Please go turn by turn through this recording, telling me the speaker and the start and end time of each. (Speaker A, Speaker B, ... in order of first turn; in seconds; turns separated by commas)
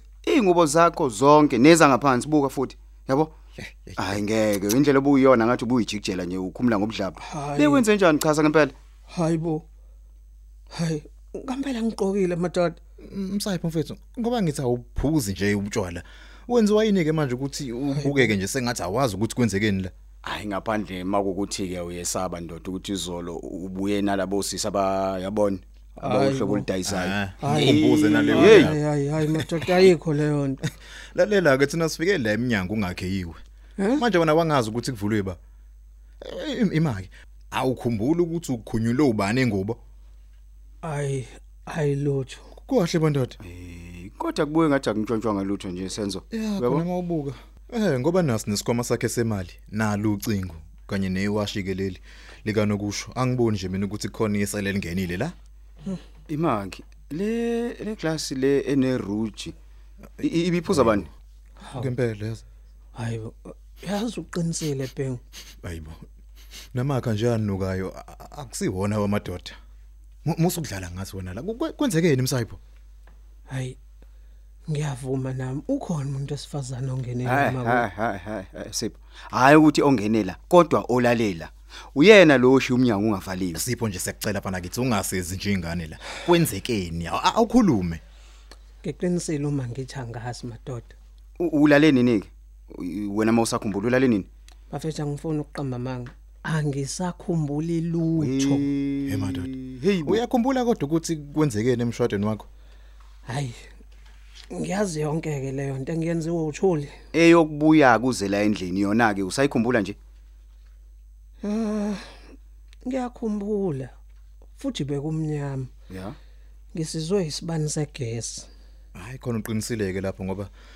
Speaker A: 0.2-3.3, Speaker B: 3.6-4.2, Speaker A: 4.0-8.7, Speaker C: 7.2-7.8, Speaker C: 9.1-9.6, Speaker C: 10.7-12.8, Speaker B: 13.0-19.9, Speaker C: 18.0-18.3, Speaker A: 20.2-28.7, Speaker C: 26.0-26.7, Speaker B: 26.9-29.5, Speaker C: 27.4-30.6, Speaker B: 31.1-33.4, Speaker B: 33.9-35.4, Speaker B: 36.2-39.8, Speaker C: 40.8-42.4, Speaker B: 42.6-43.4, Speaker A: 43.4-46.8, Speaker B: 46.3-55.3, Speaker A: 56.3-59.5, Speaker A: 60.2-61.1, Speaker B: 60.7-61.1, Speaker C: 61.6-61.9, Speaker B: 61.7-62.4, Speaker C: 63.0-65.2, Speaker B: 65.6-66.0, Speaker B: 66.7-69.5, Speaker B: 70.2-72.6, Speaker C: 73.5-73.8, Speaker C: 74.7-77.8, Speaker A: 77.2-83.6, Speaker B: 83.5-88.0, Speaker C: 88.8-90.9, Speaker A: 91.4-94.3, Speaker C: 94.7-98.7, Speaker A: 98.2-100.2, Speaker B: 99.1-102.5, Speaker C: 103.3-103.6, Speaker C: 104.5-107.0, Speaker A: 107.1-110.0, Speaker C: 111.4-112.1, Speaker C: 112.8-113.9, Speaker C: 114.6-115.7, Speaker A: 115.9-116.2, Speaker C: 116.7-118.5, Speaker B: 118.9-120.5